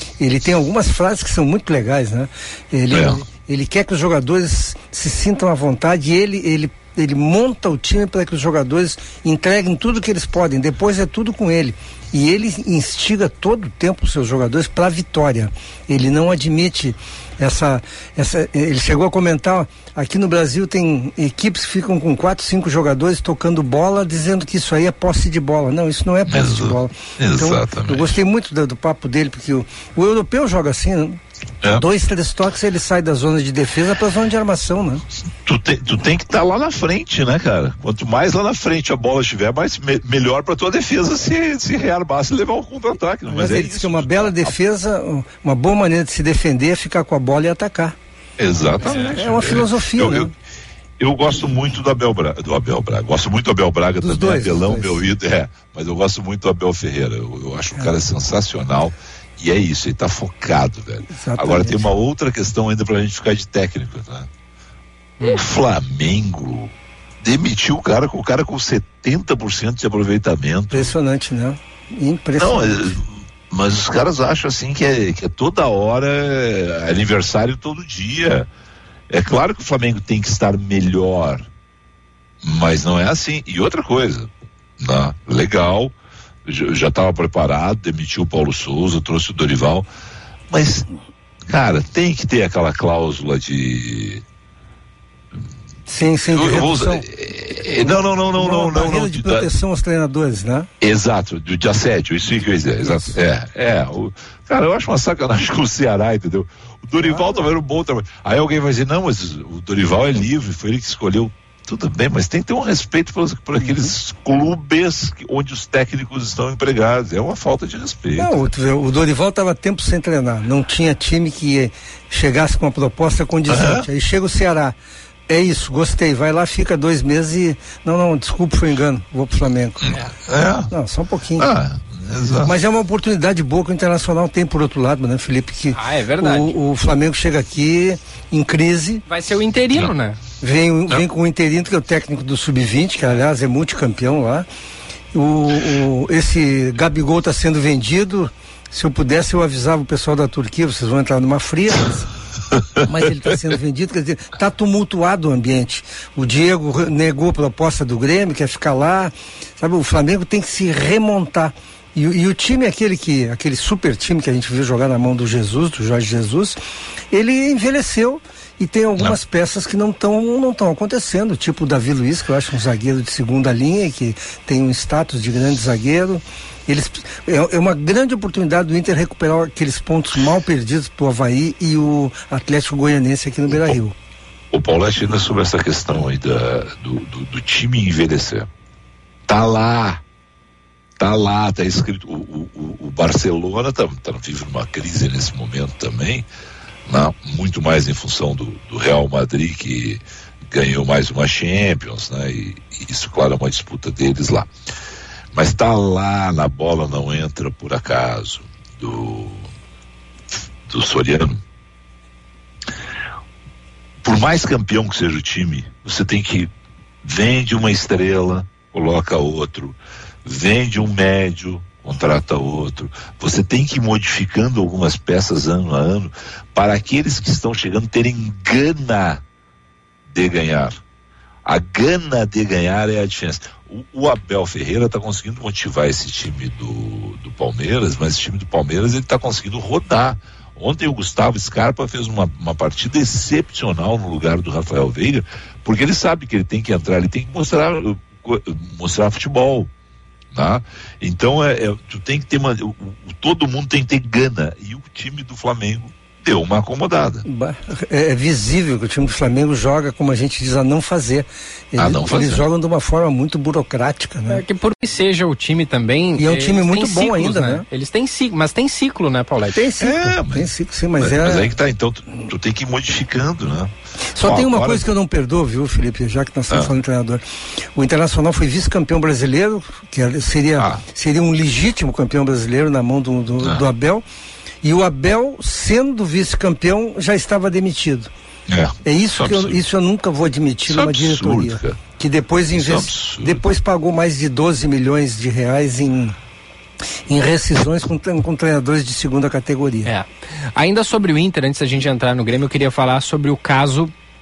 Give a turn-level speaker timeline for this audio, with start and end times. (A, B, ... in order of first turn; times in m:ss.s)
0:00.2-0:31.2 A
0:02.9-0:03.2 B
0:26.2-0:28.2 B
0:31.7-0:35.0 A
0:35.4-0:44.6 B
0:43.3-0:47.9 A
0:48.4-0:50.3 B
0:48.8-0:50.3 A
0:51.0-1:04.3 B
0:54.0-0:55.0 A
1:01.1-1:01.9 A
1:05.2-1:11.0 B
1:10.7-1:13.0 A
1:12.4-1:18.5 B
1:19.1-1:21.5 B
1:22.4-1:25.9 B
1:26.4-1:29.9 B
1:30.5-1:30.9 B
1:31.5-1:34.2 B
1:35.9-1:37.0 A
1:36.3-1:39.5 B
1:37.8-1:40.7 A
1:40.8-1:58.5 B
1:42.8-1:43.1 A
1:47.0-1:47.4 A
1:53.6-1:53.9 A
1:58.2-2:04.7 A
2:03.5-2:03.9 B
2:05.3-2:09.8 A
2:09.8-2:10.7 B
2:10.7-2:11.5 A
2:11.4-2:12.5 B
2:12.4-2:19.0 A
2:15.7-2:16.6 C
2:19.0-2:20.2 C
2:20.4-2:24.4 A
2:25.1-2:32.0 A
2:32.8-2:46.6 A
2:47.1-3:03.9 A
3:03.5-3:03.8 B
3:04.5-3:08.5 B
3:09.3-3:10.0 B
3:11.0-3:16.2 B
3:16.9-3:24.5 B
3:25.3-3:29.5 B
3:30.7-3:31.4 B
3:34.0-3:36.5 B
3:37.0-3:49.2 B
3:50.1-3:50.8 B
3:51.4-4:09.7 B
4:10.3-4:17.2 B
4:17.2-4:24.4 A
4:21.8-4:22.5 B
4:24.3-4:29.7 C
4:26.2-4:27.6 A
4:29.5-4:31.5 A
4:29.8-4:34.8 B
4:34.2-4:37.2 A
4:37.7-4:44.0 A
4:40.6-4:40.8 B
4:43.4-4:43.6 B
4:44.6-4:48.1 A
4:48.5-4:49.6 B
4:48.8-4:56.2 A
4:50.6-4:51.8 B
4:52.5-4:53.4 B
4:57.1-4:59.9 A
4:59.8-5:03.9 C